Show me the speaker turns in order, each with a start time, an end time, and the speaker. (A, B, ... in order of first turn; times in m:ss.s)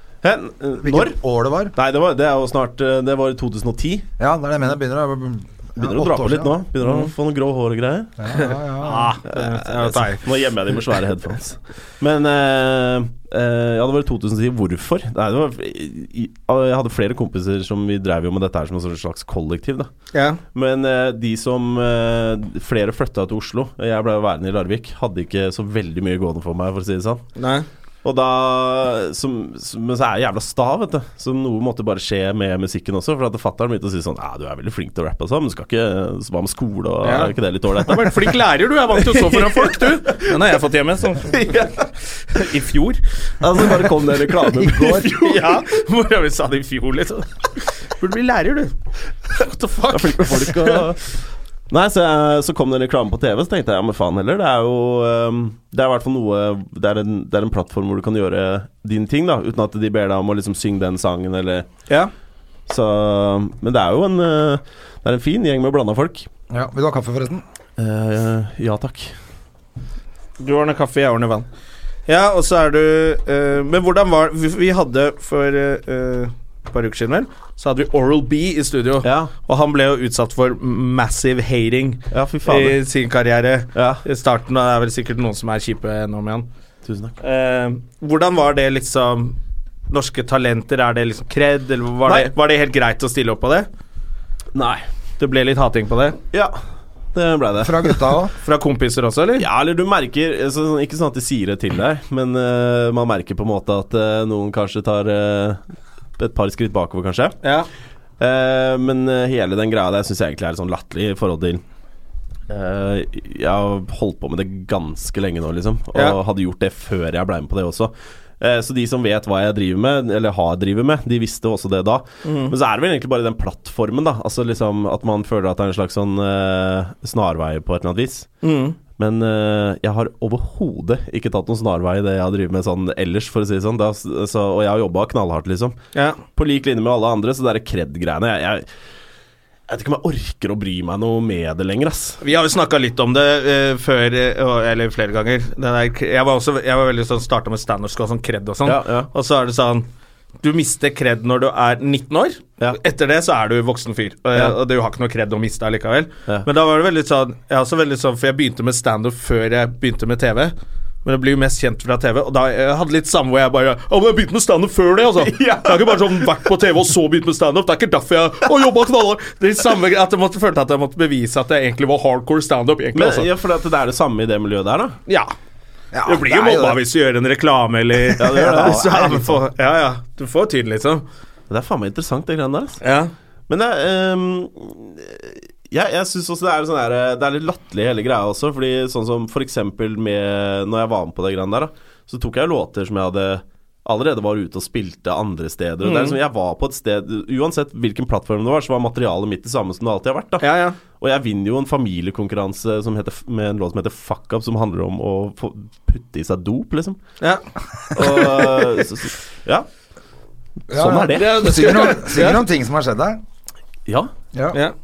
0:00.2-0:01.2 A
0:00.8-0:01.7 B
0:01.8-0:04.1 A
0:04.2-0:06.6 B
0:05.8-0:08.2 A
0:06.8-0:07.1 C
0:08.2-0:09.2 B
0:08.4-0:10.2 C
0:09.3-0:19.9 A
0:20.1-0:20.4 C
0:20.5-0:27.3 A
0:27.4-0:27.7 C
0:28.0-0:38.4 A
0:37.0-0:41.6 C
0:38.9-0:40.4 A
0:41.2-0:41.9 A
0:42.3-0:43.0 C
0:43.4-0:45.6 A
0:44.6-0:45.2 B
0:45.1-0:48.7 C
0:49.3-0:50.9 C
0:49.9-1:01.7 A
1:02.7-1:06.3 A
1:06.5-1:07.4 B
1:07.8-1:09.1 A
1:10.4-1:11.5 C
1:12.1-1:26.5 C
1:19.0-1:19.3 A
1:22.1-1:22.8 A
1:23.8-1:24.0 A
1:26.8-1:27.2 A
1:27.2-1:29.4 C
1:29.9-1:33.7 C
1:32.1-1:32.3 A
1:34.5-1:34.8 A
1:35.2-1:36.2 C
1:36.3-1:36.6 A
1:37.1-1:38.1 A
1:37.6-1:38.3 B
1:38.4-1:39.4 C
1:39.4-1:45.6 A
1:46.2-1:47.4 A
1:47.4-1:47.7 C
1:48.2-1:51.6 A
1:52.5-2:08.3 A
2:02.2-2:02.5 C
2:08.4-2:08.8 C
2:09.0-2:15.8 A
2:16.0-2:16.2 C
2:16.3-2:18.7 A
2:19.7-2:22.2 A
2:22.2-2:29.9 C
2:28.6-2:29.1 A
2:30.4-2:53.3 C
2:45.2-2:46.3 A
2:53.0-2:55.0 A
2:55.1-2:55.3 C
2:55.9-2:56.8 B
2:56.1-3:01.0 C
2:58.2-2:59.1 A
2:58.2-2:59.4 B
3:01.5-3:02.8 A
3:02.8-3:03.1 C
3:03.5-3:27.0 A
3:15.8-3:16.2 C
3:20.4-3:20.8 C
3:28.0-3:29.7 A
3:28.0-3:28.5 C
3:30.7-3:31.6 A
3:30.7-3:33.2 B
3:31.1-3:32.4 C
3:34.3-3:34.6 B